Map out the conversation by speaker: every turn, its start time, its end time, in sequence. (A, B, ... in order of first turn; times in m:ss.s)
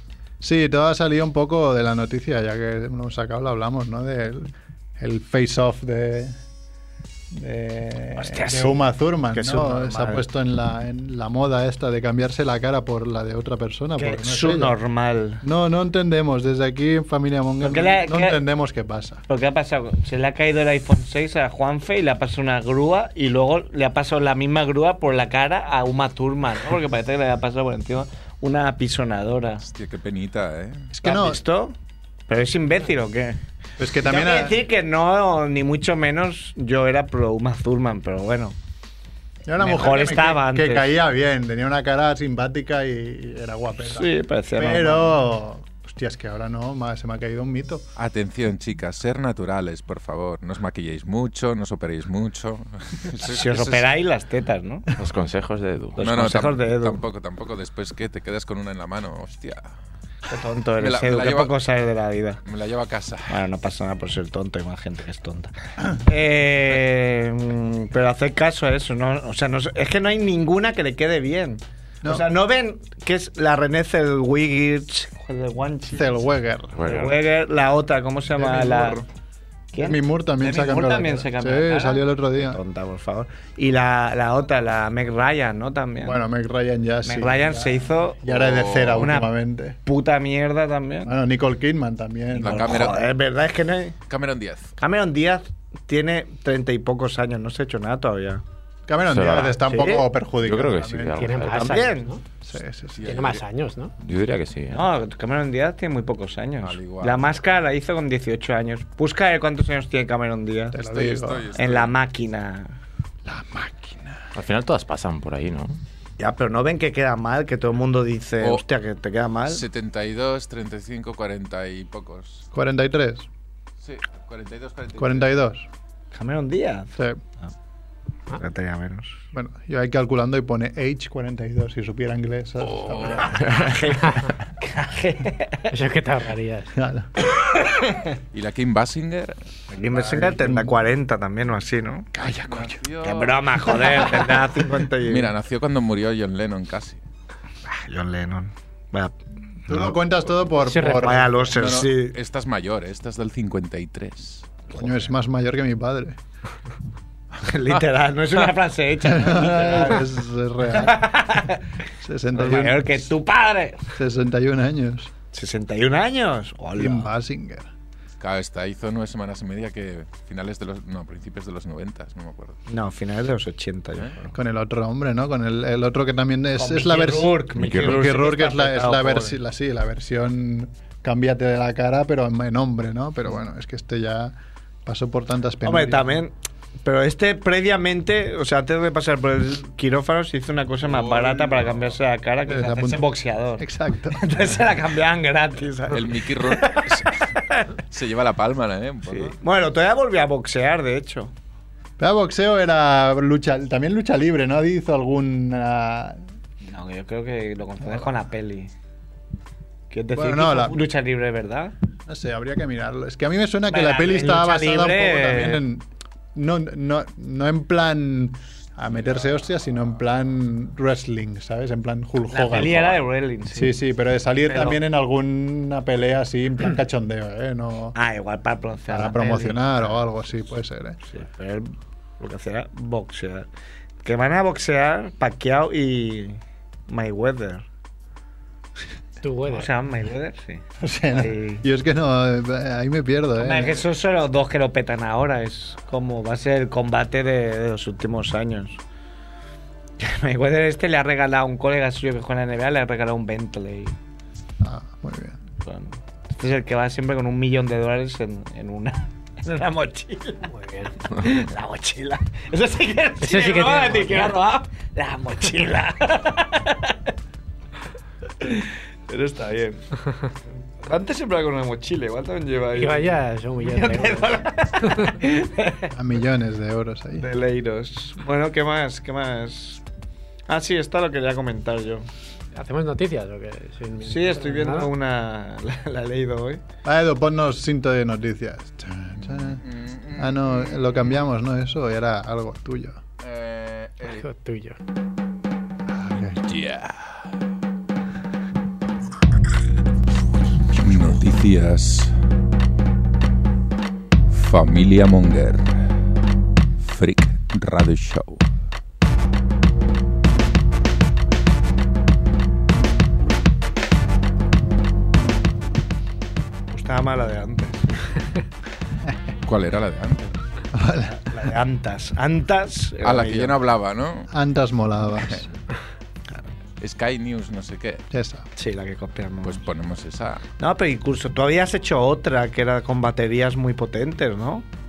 0:00.4-0:06.4 A
0:07.3-0:14.8 A
0:08.2-0:10.2 B
0:14.0-0:15.4 B
0:15.4-0:19.2 A
0:17.6-0:18.4 B
0:19.3-0:29.6 B
0:29.6-0:30.9 C
0:30.9-0:31.4 A
0:31.0-0:31.8 B
0:32.3-0:33.4 B
0:33.8-0:34.6 A
0:34.0-0:38.6 B
0:39.5-0:47.8 A
0:39.6-0:40.9 B
0:43.8-0:45.2 B
0:48.0-0:53.9 C
0:53.2-0:54.9 B
0:54.9-0:56.0 D
0:56.0-0:57.0 B
0:56.0-0:59.7 C
1:00.3-1:02.4 B
1:00.8-1:01.6 C
1:02.4-1:03.4 C
1:03.3-1:16.2 B
1:15.9-1:16.8 A
1:16.8-1:17.2 D
1:16.8-1:19.0 B
1:18.4-1:19.0 A
1:19.7-1:26.2 B
1:19.8-1:22.6 A
1:26.0-1:29.8 A
1:27.0-1:28.3 B
1:28.3-1:29.1 C
1:28.9-1:29.3 B
1:29.8-1:31.1 B
1:31.0-1:33.0 A
1:32.4-1:34.0 B
1:32.4-1:33.1 C
1:34.1-1:34.7 C
1:34.8-1:38.4 B
1:38.9-1:41.4 A
1:39.1-1:39.6 D
1:39.6-1:40.1 B
1:40.4-1:41.7 D
1:41.2-1:42.2 E
1:41.5-1:42.1 B
1:42.4-1:43.1 A
1:43.0-1:43.4 C
1:43.0-1:43.9 E
1:44.0-1:44.8 D
1:44.7-1:50.8 B
1:46.6-1:47.3 C
1:50.7-1:51.5 A
1:50.9-1:51.9 C
1:51.6-1:52.8 B
1:53.2-1:54.2 A
1:54.3-1:55.8 D
1:56.2-1:59.6 B
1:59.5-2:02.4 C
2:02.5-2:03.3 A
2:03.8-2:05.3 C
2:05.0-2:05.7 A
2:06.1-2:07.5 B
2:08.3-2:09.2 B
2:09.3-2:13.5 A
2:12.6-2:13.4 C
2:13.4-2:15.7 B
2:15.7-2:16.7 E
2:16.7-2:17.1 A
2:17.3-2:18.1 B
2:18.3-2:19.4 C
2:19.7-2:22.1 B
2:19.9-2:20.8 A
2:22.1-2:22.8 A
2:22.5-2:24.1 C
2:23.0-2:25.3 B
2:25.0-2:27.0 C
2:27.7-2:29.1 B
2:29.7-2:31.3 A
2:30.7-2:31.2 E
2:30.9-2:32.2 B
2:31.6-2:34.6 C
2:34.7-2:36.2 A
2:37.4-2:40.1 B
2:39.0-2:41.4 A
2:40.7-2:41.7 B
2:42.0-2:43.1 A
2:42.3-2:43.9 B
2:44.0-2:45.1 A
2:45.3-2:47.1 B
2:46.8-2:47.7 A
2:48.2-2:52.6 C
2:52.7-2:54.3 B
2:54.3-3:04.3 A
2:56.6-2:59.4 B
2:57.6-2:58.0 D
3:04.8-3:06.2 A
3:05.6-3:17.7 B
3:10.8-3:12.0 C
3:12.5-3:14.3 A
3:15.9-3:17.2 C
3:17.9-3:19.4 C
3:19.1-3:21.3 B
3:22.0-3:26.2 A
3:26.6-3:28.7 B
3:29.9-3:31.7 B
3:30.1-3:30.8 A
3:32.1-3:48.0 A
3:33.7-3:35.6 B
3:42.3-3:43.8 B
3:44.4-3:44.8 B
3:48.0-3:50.0 B
3:48.9-3:51.0 A
3:51.0-3:53.5 B
3:54.0-3:57.7 B
3:59.2-3:59.7 E
3:59.5-4:01.6 B
4:00.8-4:03.9 A
4:03.4-4:08.8 B
4:10.0-4:14.0 B
4:14.6-4:15.4 A
4:15.6-4:20.5 B
4:20.5-4:20.9 E
4:21.1-4:27.1 B
4:23.2-4:24.4 E
4:28.4-4:29.9 B
4:30.8-4:35.9 B
4:32.8-4:35.1 E
4:35.9-4:37.3 A
4:37.2-4:39.8 B
4:40.5-4:42.1 B
4:42.5-4:44.9 E
4:44.0-4:46.6 B
4:46.8-4:49.6 A
4:49.6-4:51.2 C
4:50.2-4:53.0 A
4:53.2-4:54.3 C
4:54.0-4:54.8 E
4:55.9-4:56.4 A
4:56.4-4:57.3 C
5:00.8-5:02.1 C
5:04.3-5:05.9 C
5:06.8-5:08.4 C
5:16.7-5:18.0 B
5:19.4-5:20.3 C
5:20.7-5:21.3 A
5:21.1-5:23.6 B
5:23.0-5:24.3 C
5:24.3-5:25.4 A
5:26.8-5:28.0 C
5:28.1-5:28.5 A
5:28.6-5:29.6 B
5:29.4-5:30.4 C
5:30.6-5:34.6 B